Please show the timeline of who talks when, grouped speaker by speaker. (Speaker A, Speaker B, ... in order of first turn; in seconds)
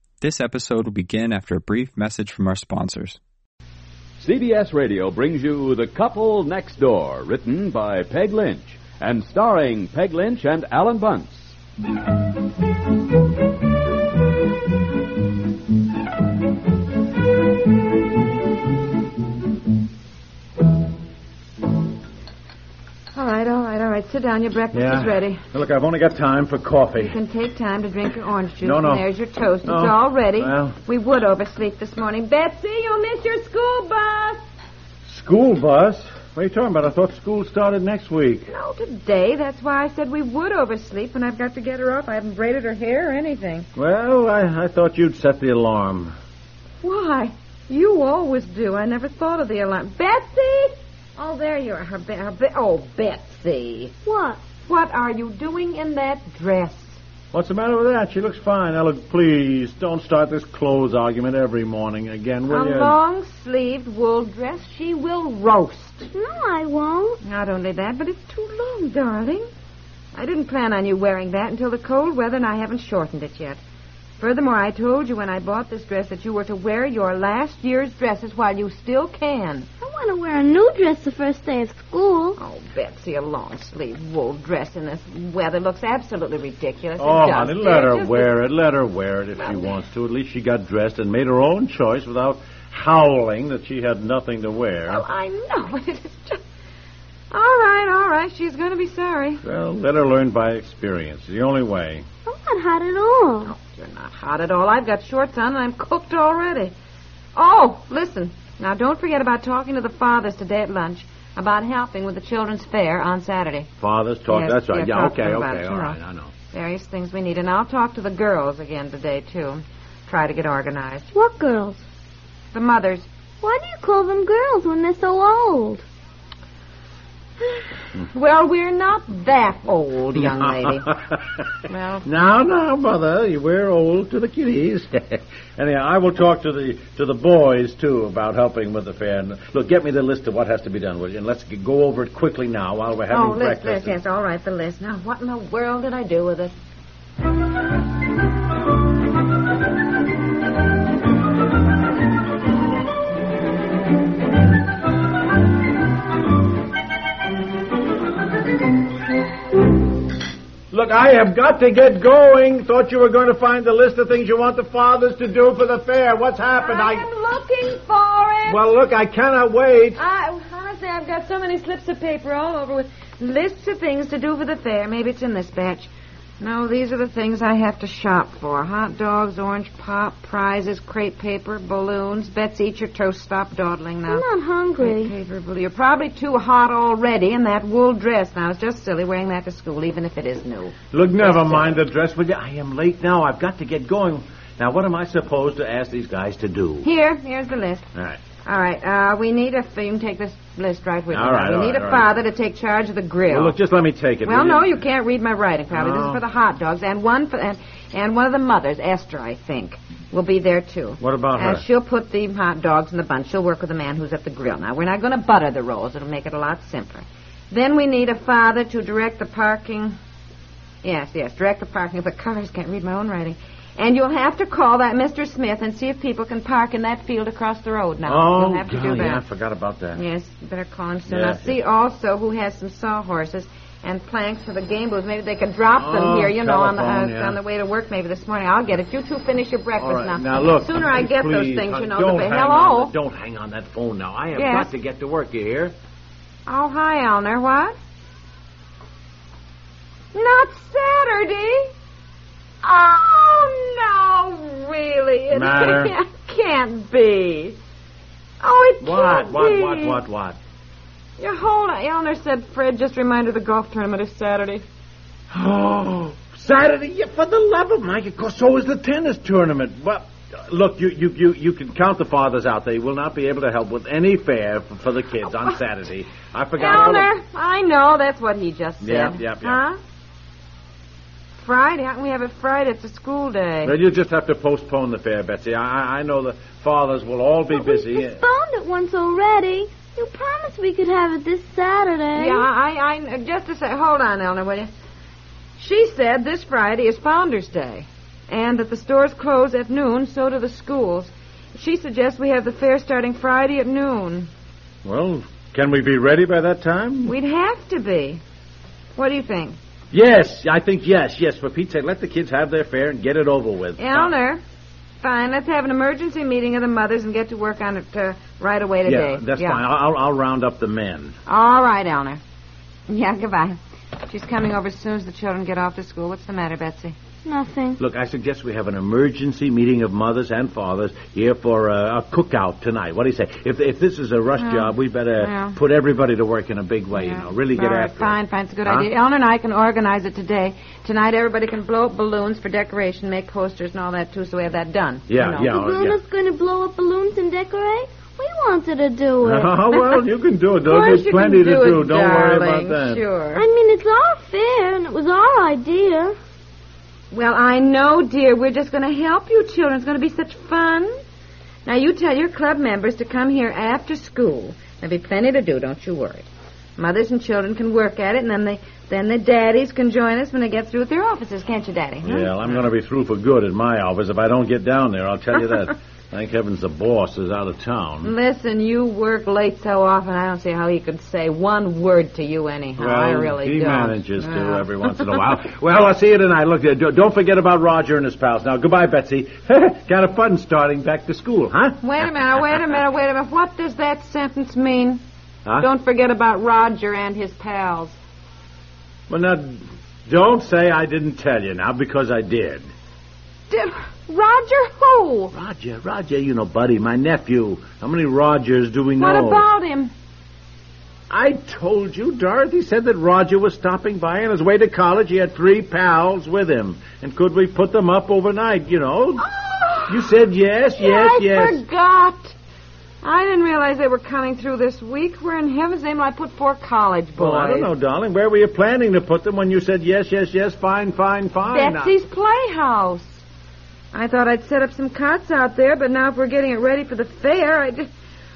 Speaker A: 0.2-3.2
Speaker B: 4.2-11.5
Speaker C: 23.1-25.4, 27.0-34.4, 38.5-43.7, 46.8-53.9, 54.7-57.0, 62.5-66.1, 67.2-69.5, 70.2-73.6, 74.2-79.7, 82.4-88.3, 89.4-89.8, 94.9-96.4, 97.3-99.4, 103.4-106.7, 107.3-113.7, 114.3-116.0, 116.5-121.1, 122.5-123.1, 128.1-130.9, 131.7-132.1, 143.1-146.5, 166.6-168.6, 169.9-184.2, 184.8-191.8, 196.8-197.8, 198.4-203.6, 204.2-219.9, 220.8-229.2, 229.9-242.9, 244.3-244.7, 246.4-247.8, 250.1-251.7, 252.6-257.6, 258.4-260.0, 261.2-264.6, 275.2-275.6, 276.6-279.8, 281.4-283.8, 292.1-294.7, 295.6-304.3, 307.1-308.2, 308.9-309.6, 313.8-314.4, 315.0-319.6, 321.3-322.2, 322.9-326.9, 334.4-335.6, 336.9-345.5, 350.6-353.4, 357.1-360.9, 361.6-372.7, 378.0-385.1, 391.8-395.0, 395.6-398.0, 403.5-405.3, 409.0-409.9, 419.2-420.2, 420.8-422.3, 423.0-427.7, 431.5-433.2, 433.9-437.9
Speaker D: 24.7-27.2, 28.6-29.1, 29.6-30.8, 35.0-38.5, 43.8-46.1, 57.3-63.0, 87.0-95.0, 99.4-102.0, 113.8-116.3, 132.0-144.0, 160.7-167.1, 168.5-170.0, 190.9-196.9, 197.9-198.2, 201.1-202.1, 203.3-204.8, 205.7-206.2, 211.0-211.6, 228.0-230.0, 231.1-231.6, 235.8-237.4, 239.8-245.7, 255.3-255.9, 258.8-260.4, 265.3-277.1, 278.8-279.6, 283.6-288.2, 304.8-307.1, 309.9-314.1, 318.8-321.2, 327.8-338.9, 345.1-346.0, 349.2-353.0, 372.0-378.1, 382.8-391.8, 399.1-402.7, 405.3-409.4, 411.1-419.2, 419.9-421.6, 427.1-431.9
Speaker E: 54.0-54.4, 66.1-67.2, 79.8-82.4, 102.2-103.5, 121.1-121.8, 123.4-125.8, 184.1-185.1, 287.5-292.4, 327.2-327.8, 345.4-349.8, 353.3-356.1